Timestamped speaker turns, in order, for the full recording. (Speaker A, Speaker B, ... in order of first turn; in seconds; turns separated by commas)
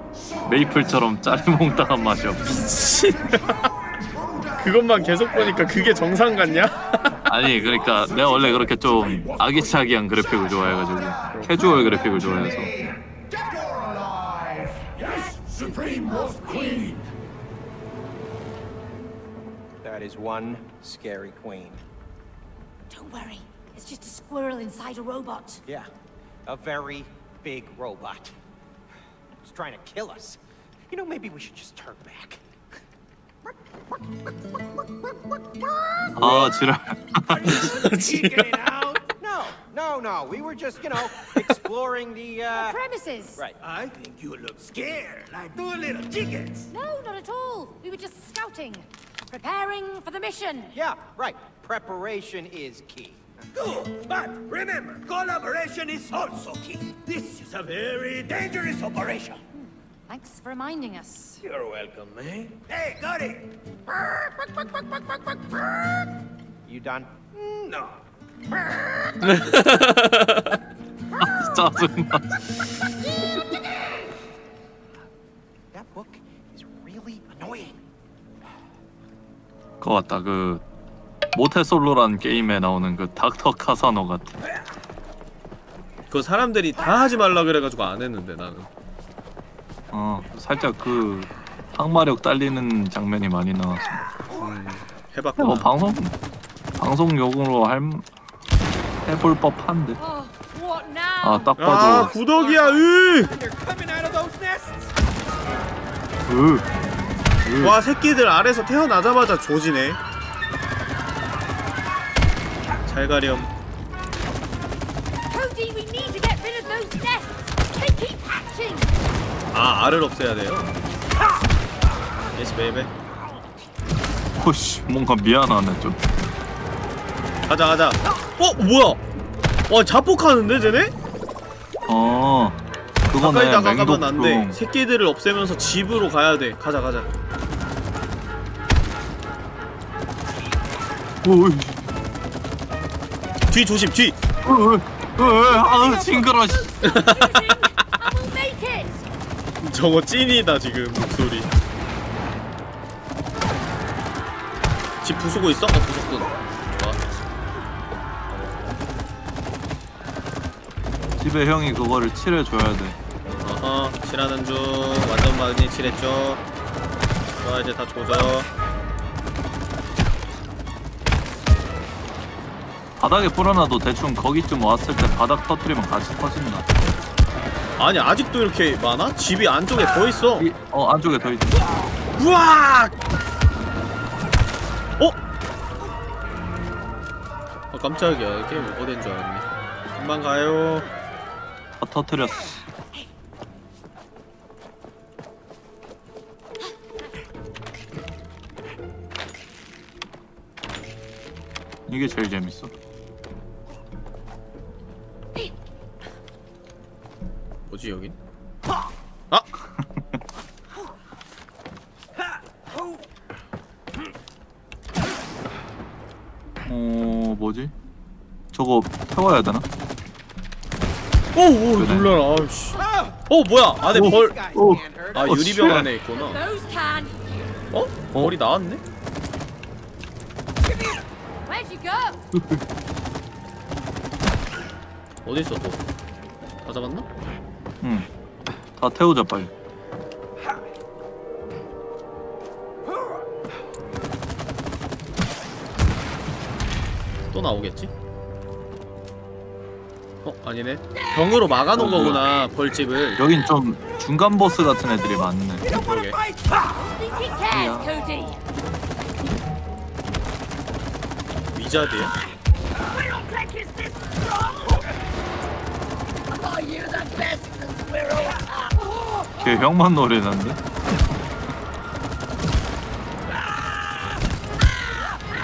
Speaker A: 0.5-2.6, Speaker B: 2.5-3.6, Speaker B: 4.6-7.2, Speaker A: 7.2-12.7, Speaker C: 8.0-9.8, Speaker B: 11.3-11.8, Speaker C: 13.3-17.1, Speaker D: 19.8-21.8, Speaker E: 22.9-25.6, Speaker D: 26.5-28.3, Speaker D: 29.4-30.4, Speaker D: 30.9-32.4, Speaker D: 33.5-36.5, Speaker A: 36.1-37.7, Speaker B: 36.2-36.5, Speaker F: 37.3-39.1, Speaker B: 37.5-38.6, Speaker D: 39.2-42.8, Speaker E: 42.5-43.4, Speaker F: 43.6-46.7, Speaker E: 46.7-50.8, Speaker D: 50.7-53.3, Speaker F: 53.5-59.4, Speaker E: 60.1-61.4, Speaker F: 61.4-63.5, Speaker D: 66.7-67.4, Speaker F: 67.5-67.9, Speaker B: 69.2-70.6, Speaker A: 71.2-72.4, Speaker D: 75.7-77.8, Speaker A: 79.8-80.6, Speaker A: 81.3-84.4, Speaker B: 86.1-88.7, Speaker A: 89.9-94.0, Speaker B: 94.4-95.7, Speaker A: 95.4-96.2, Speaker A: 96.8-98.1, Speaker A: 99.0-100.0, Speaker E: 100.0-101.9, Speaker A: 101.2-102.1, Speaker B: 101.6-103.3, Speaker D: 102.4-104.9, Speaker A: 106.3-106.7, Speaker A: 107.4-107.8, Speaker B: 107.6-110.0, Speaker B: 112.9-113.5, Speaker E: 115.3-118.9, Speaker B: 119.5-120.7, Speaker B: 122.3-122.9, Speaker A: 124.4-126.0, Speaker B: 127.5-129.0, Speaker B: 129.7-130.9, Speaker A: 131.9-134.6, Speaker B: 133.2-137.1, Speaker A: 141.2-141.8, Speaker B: 143.5-144.2, Speaker A: 144.4-146.7, Speaker E: 145.6-146.2, Speaker E: 146.7-149.1, Speaker B: 146.8-148.1, Speaker B: 149.6-151.5, Speaker B: 155.0-157.0, Speaker A: 161.2-163.0, Speaker B: 163.4-166.4, Speaker B: 167.4-168.5, Speaker A: 173.0-176.7, Speaker B: 177.8-180.5, Speaker A: 180.4-181.6, Speaker B: 182.2-182.9, Speaker B: 187.7-190.9, Speaker A: 191.8-192.6, Speaker A: 201.9-202.7, Speaker B: 207.7-208.2, Speaker A: 216.7-217.7, Speaker A: 218.5-219.7, Speaker B: 221.3-224.4, Speaker A: 221.8-222.2, Speaker D: 222.8-223.2, Speaker D: 223.8-225.6, Speaker A: 223.9-225.9, Speaker B: 225.1-226.4, Speaker E: 226.1-227.2, Speaker B: 227.7-228.8, Speaker E: 231.5-232.2, Speaker A: 232.3-232.6, Speaker B: 235.2-235.8, Speaker B: 236.7-237.1, Speaker A: 237.8-238.1, Speaker A: 238.8-239.5, Speaker B: 247.3-247.9, Speaker B: 250.2-253.2, Speaker A: 251.8-252.4, Speaker A: 253.2-255.7, Speaker D: 255.7-256.2, Speaker B: 255.7-256.2, Speaker E: 256.8-258.4, Speaker A: 257.5-257.9, Speaker B: 261.5-262.1, Speaker A: 269.4-270.6